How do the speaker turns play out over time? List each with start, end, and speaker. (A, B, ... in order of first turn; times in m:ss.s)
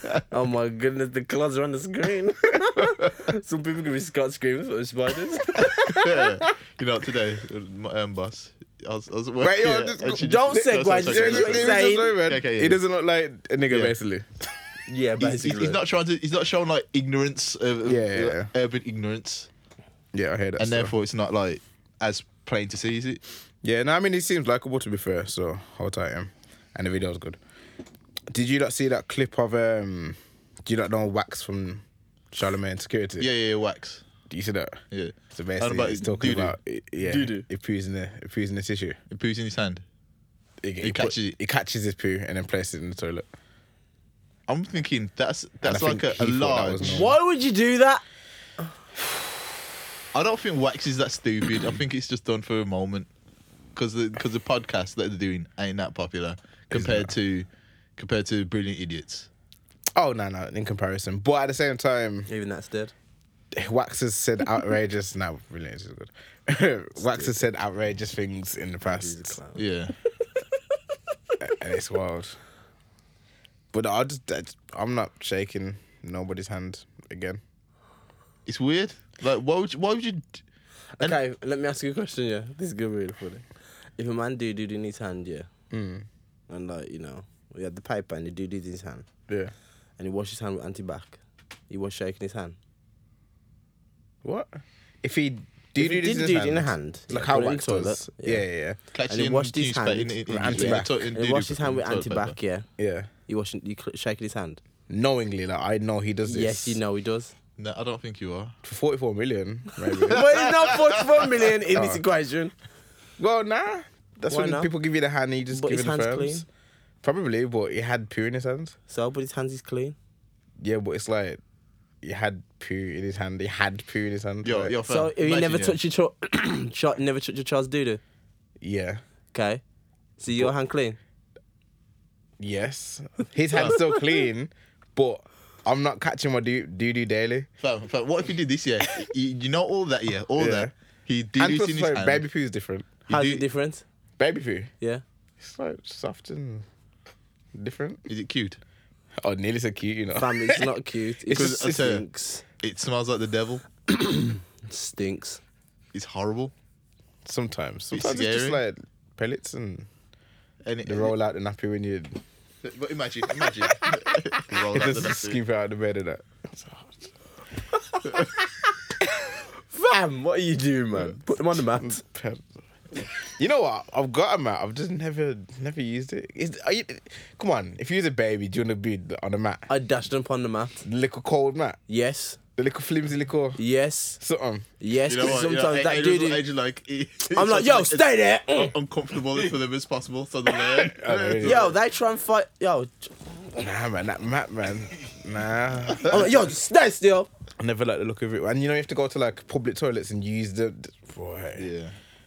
0:00.3-0:06.4 A
0:05.8-0:12.8 B
0:09.4-0:14.3 C
0:10.2-0:12.1 A
0:13.7-0:14.0 B
0:14.9-0:15.8 A
0:15.2-0:19.5 B
0:17.8-0:18.5 C
0:20.1-0:20.9 C
0:20.6-0:23.2 B
0:23.6-0:27.4 C
0:28.3-0:33.3 C
0:33.2-0:34.0 B
0:34.3-0:34.8 C
0:34.9-0:36.6 B
0:35.3-0:39.0 C
0:37.0-0:37.4 A
0:39.1-0:39.8 B
0:40.6-0:43.3 C
0:40.8-0:41.4 B
0:44.5-0:47.1 B
0:45.6-0:47.2 C
0:46.8-0:48.0 A
0:50.1-0:53.1 B
0:53.7-0:59.3 B
0:56.7-0:57.1 C
0:59.9-1:02.3 C
1:02.3-1:02.9 A
1:03.5-1:09.4 C
1:07.0-1:07.4 A
1:08.8-1:09.6 A
1:09.6-1:09.9 B
1:11.4-1:12.4 C
1:13.7-1:17.4 C
1:18.4-1:20.4 B
1:21.0-1:23.4 A
1:24.0-1:25.5 A
1:25.7-1:26.1 C
1:26.5-1:29.1 A
1:29.3-1:29.5 C
1:30.0-1:32.6 A
1:34.2-1:38.8 C
1:35.8-1:38.4 A
1:38.9-1:42.4 B
1:39.1-1:42.7 A
1:40.3-1:41.1 C
1:42.8-1:43.1 C
1:43.3-1:44.6 A
1:44.9-1:46.8 C
1:46.2-1:47.3 A
1:47.6-1:48.5 B
1:48.6-1:50.5 C
1:50.1-1:52.5 A
1:51.7-1:52.0 C
1:53.2-1:56.4 C
1:54.3-1:54.7 A
1:55.5-1:56.4 A
1:57.0-1:58.8 C
1:58.9-2:00.0 A
2:00.6-2:01.4 C
2:02.0-2:04.7 C
2:04.4-2:05.8 B
2:04.9-2:08.0 A
2:08.6-2:09.0 C
2:09.3-2:09.6 A
2:10.2-2:11.0 A
2:12.4-2:17.5 C
2:17.6-2:22.2 B
2:20.4-2:20.7 C
2:21.4-2:22.9 C
2:23.1-2:23.4 B
2:23.1-2:23.8 A
2:24.2-2:24.7 C
2:25.4-2:26.6 C
2:27.5-2:28.0 C
2:28.1-2:28.6 B
2:29.2-2:30.7 C
2:30.2-2:32.4 A
2:31.3-2:32.0 B
2:32.6-2:33.6 B
2:33.9-2:35.4 A
2:35.9-2:36.5 B
2:37.2-2:39.9 C
2:37.9-2:38.6 B
2:40.6-2:41.1 B
2:40.8-2:42.2 C
2:42.6-2:45.4 B
2:44.5-2:46.9 C
2:49.7-2:52.0 A
2:51.5-2:59.7 C
2:59.7-3:00.8 A
3:00.8-3:01.8 C
3:01.9-3:02.4 A
3:02.6-3:03.6 C
3:03.6-3:04.2 A
3:04.2-3:04.7 C
3:04.8-3:06.4 A
3:05.1-3:11.7 B
3:07.3-3:08.7 A
3:10.8-3:11.7 C
3:11.4-3:13.2 A
3:13.5-3:16.5 C
3:16.1-3:17.3 A
3:17.6-3:21.7 C
3:21.6-3:22.0 B